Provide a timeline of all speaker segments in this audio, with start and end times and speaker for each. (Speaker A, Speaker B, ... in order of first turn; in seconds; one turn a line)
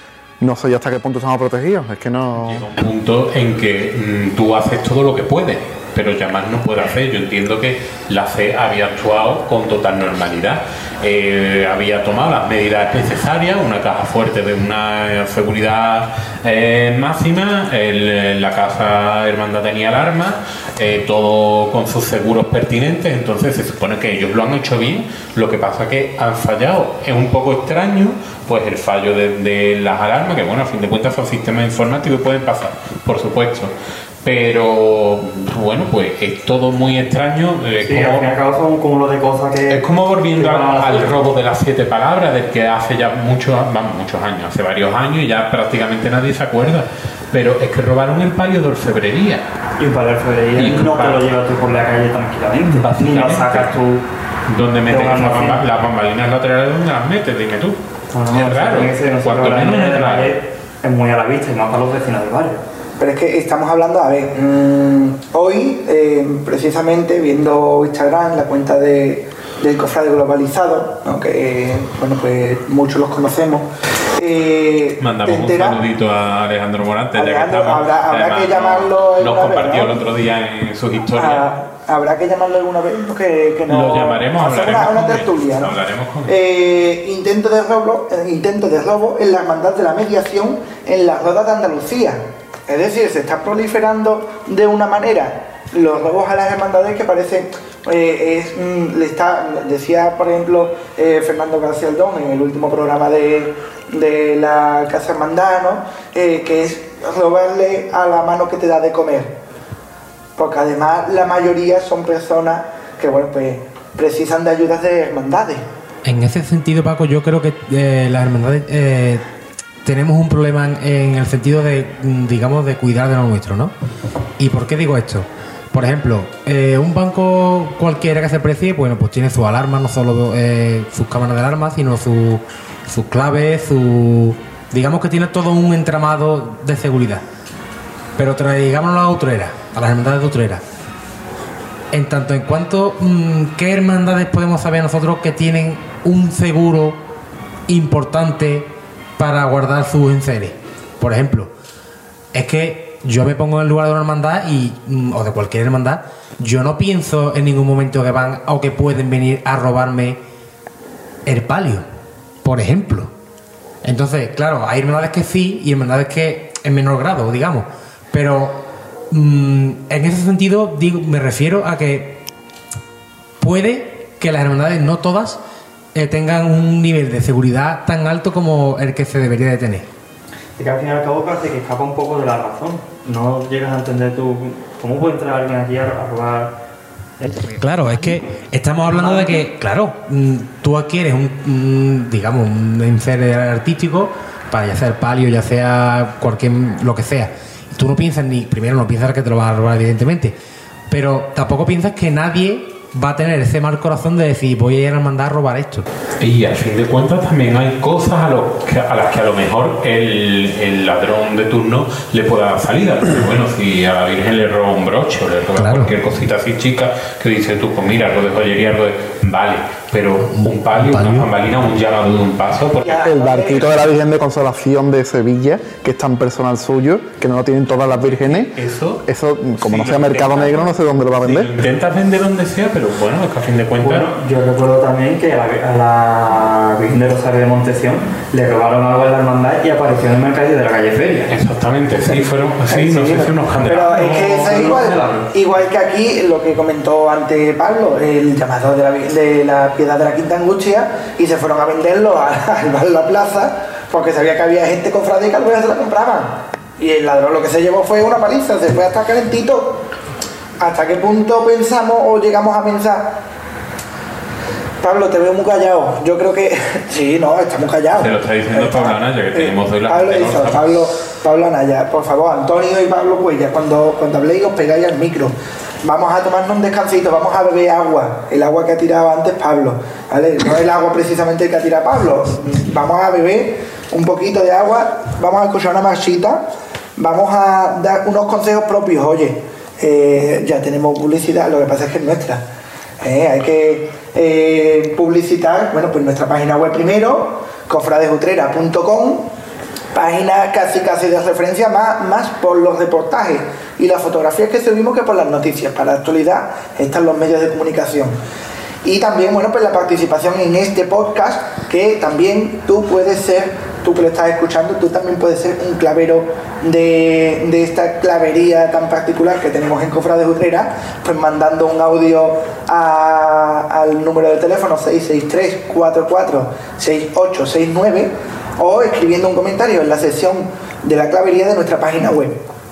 Speaker A: 0.4-2.6
Speaker B: 2.4-38.3
Speaker C: 37.8-41.1
Speaker B: 39.7-49.4
Speaker C: 49.8-54.0
Speaker B: 50.5-51.3
Speaker B: 52.6-53.8
Speaker B: 54.5-57.8
Speaker C: 54.9-55.6
Speaker C: 58.1-62.6
Speaker B: 58.3-60.4
Speaker D: 63.0-75.8
Speaker B: 75.0-81.5
Speaker D: 77.2-80.0
Speaker D: 81.1-109.3
Speaker B: 83.7-86.3
Speaker D: 110.4-115.7
Speaker E: 116.0-119.2
Speaker E: 119.8-123.7
Speaker E: 124.4-137.2
Speaker E: 138.2-140.6
Speaker E: 141.9-147.0
Speaker E: 147.7-151.5
Speaker E: 152.3-160.2
Speaker E: 161.2-161.8
Speaker E: 162.4-163.1
Speaker E: 163.8-172.2
Speaker E: 173.4-175.4
Speaker E: 175.9-179.9
Speaker C: 180.6-186.6
Speaker E: 187.3-200.3
Speaker C: 188.9-189.4
Speaker E: 200.9-205.9
Speaker B: 206.2-223.0
Speaker E: 215.6-215.9
Speaker E: 220.3-221.3
Speaker D: 222.8-223.9
Speaker A: 223.0-231.5
Speaker B: 228.0-229.0
Speaker C: 229.6-230.8
Speaker B: 231.2-234.1
Speaker C: 233.8-241.3
Speaker B: 241.3-245.2
Speaker D: 242.7-259.9
Speaker C: 244.4-245.2
Speaker D: 260.6-263.2
Speaker D: 264.8-286.4
Speaker B: 268.0-270.7
Speaker D: 287.0-292.4
Speaker D: 293.0-299.3
Speaker D: 299.9-308.2
Speaker D: 308.8-332.4